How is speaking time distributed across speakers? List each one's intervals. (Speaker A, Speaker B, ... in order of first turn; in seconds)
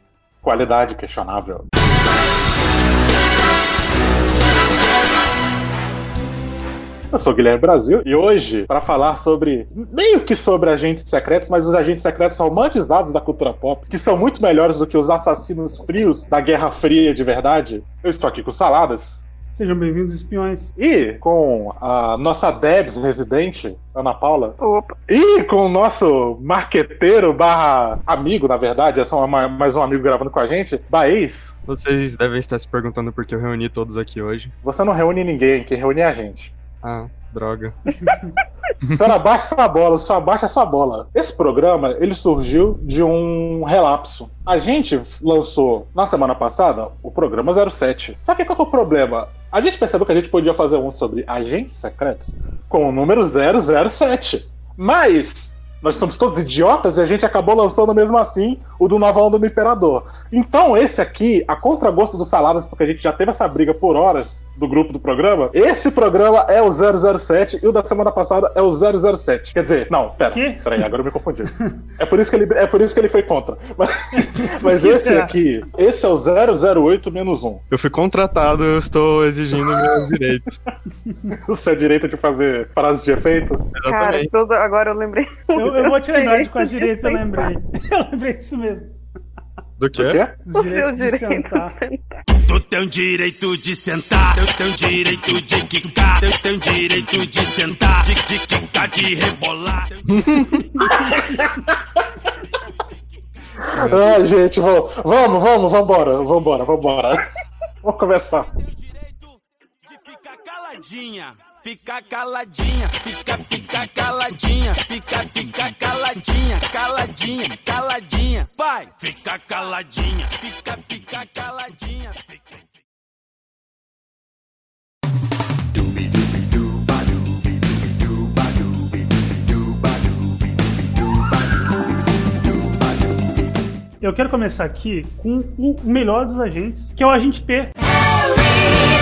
Speaker A: 0.4-1.6, 7.1-19.2, 20.8-24.6, 25.1-31.5, 34.6-36.5, 38.8-77.6, 79.6-80.1, 81.3-83.6, 90.0-90.3, 100.8-102.0, 103.6-107.2, 107.8-108.5
Speaker B: 19.5-20.7, 38.0-38.3, 70.3-70.8, 74.1-75.3, 81.0-81.3, 85.5-88.9, 90.4-91.7, 100.8-101.3, 134.0-137.7
Speaker C: 24.6-24.9, 83.9-87.5, 90.6-92.2
Speaker D: 31.7-34.5, 36.8-37.8, 77.7-80.5, 83.7-84.3, 89.8-90.2
Speaker E: 92.5-100.3, 108.9-109.3, 109.8-122.6